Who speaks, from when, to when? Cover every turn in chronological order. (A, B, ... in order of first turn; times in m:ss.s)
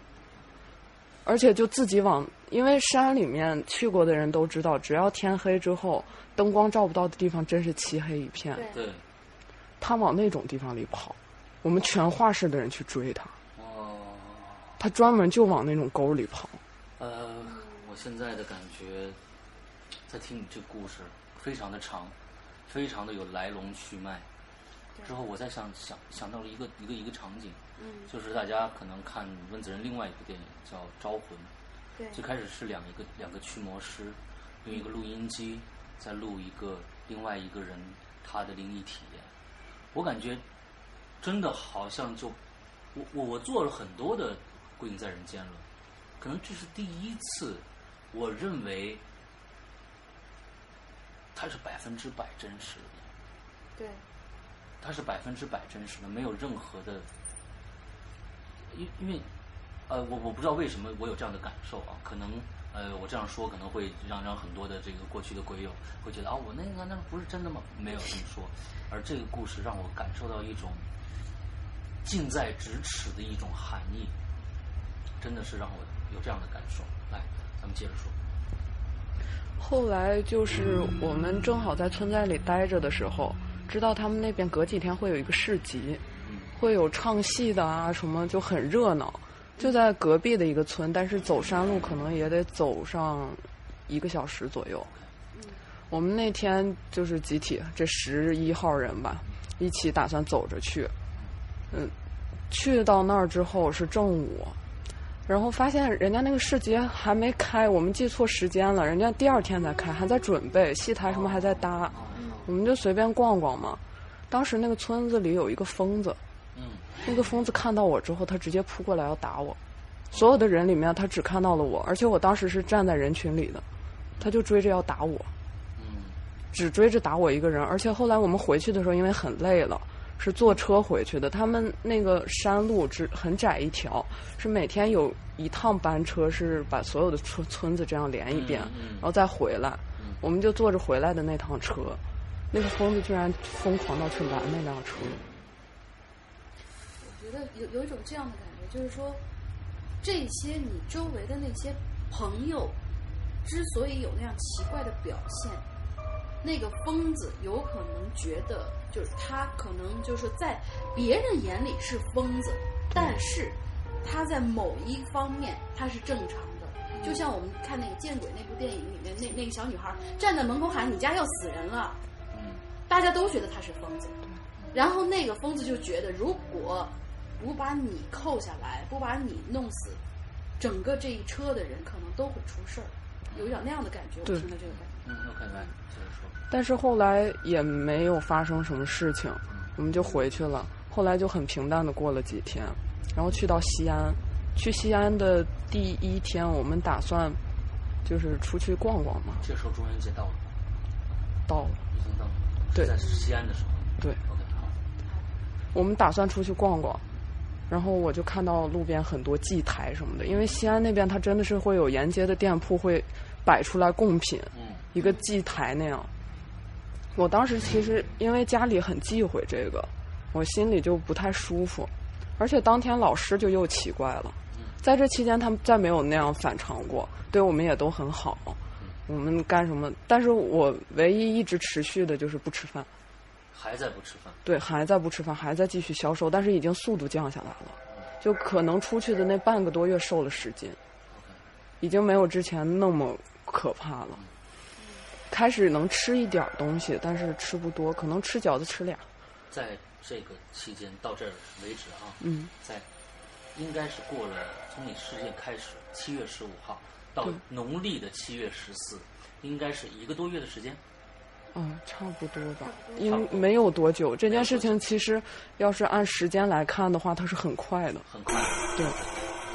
0:01.2-0:08.7 A
0:08.5-0:08.8 B
0:08.7-0:09.0 C
0:09.8-0:13.3 A
0:13.5-0:14.8 C
0:14.8-0:16.6 A
0:17.0-0:19.2 C
0:17.4-0:17.8 B
0:20.1-0:22.1 C
0:22.7-0:24.3 C
0:25.0-0:31.5 C
0:27.8-0:28.1 B
0:31.9-0:32.2 B
0:32.1-0:39.3 C
0:39.9-0:40.4 C
0:41.2-0:42.4 C
0:42.9-0:45.6 C
0:46.2-0:49.0 C
0:51.3-0:53.0 C
0:53.8-0:54.0 B
0:54.8-0:57.1 C
0:58.7-0:59.3 C
0:59.9-1:10.9 C
1:12.0-1:14.1 C
1:15.2-1:18.2 C
1:19.6-1:26.0 A
1:26.2-1:26.5 C
1:26.5-1:34.9 A
1:35.3-1:35.6 B
1:35.9-1:40.9 A
1:42.5-1:44.6 A
1:45.3-1:56.2 A
1:51.0-1:52.4 C
1:52.1-1:52.5 B
1:56.5-1:57.1 C
1:57.0-1:59.6 A
2:00.1-2:03.6 A
2:04.2-2:05.3 A
2:05.8-2:06.2 C
2:06.5-2:22.0 A
2:18.3-2:19.1 C
2:20.0-2:20.2 C
2:22.5-2:25.2 A
2:27.0-2:29.2 B
2:30.0-2:32.8 B
2:33.4-2:35.6 B
2:36.4-2:52.0 B
2:46.9-2:47.2 C
2:52.3-2:52.6 C
2:52.9-2:54.2 B
2:54.7-3:00.0 B
3:00.6-3:04.9 B
3:03.3-3:03.6 C
3:04.6-3:06.4 C
3:06.5-3:17.4 A
3:09.5-3:09.7 C
3:18.0-3:19.4 A
3:19.4-3:20.5 C
3:21.5-3:21.8 A
3:21.9-3:24.7 C
3:23.0-3:23.3 B
3:25.0-3:25.3 B
3:25.7-3:27.0 A
3:27.7-3:36.1 A
3:34.5-3:34.8 C
3:35.0-3:35.3 B
3:37.1-3:52.9 A
3:44.5-3:44.8 C
3:53.5-3:54.4 C
3:54.4-4:00.8 A
4:01.1-4:01.4 C
4:01.8-4:04.2 A
4:04.8-4:05.1 B
4:05.3-4:09.1 A
4:09.5-4:12.8 C
4:12.2-4:12.5 A
4:13.5-4:20.8 C
4:21.5-4:28.0 A
4:22.6-4:23.3 B
4:23.0-4:23.6 C
4:24.3-4:24.8 C
4:28.0-4:29.4 C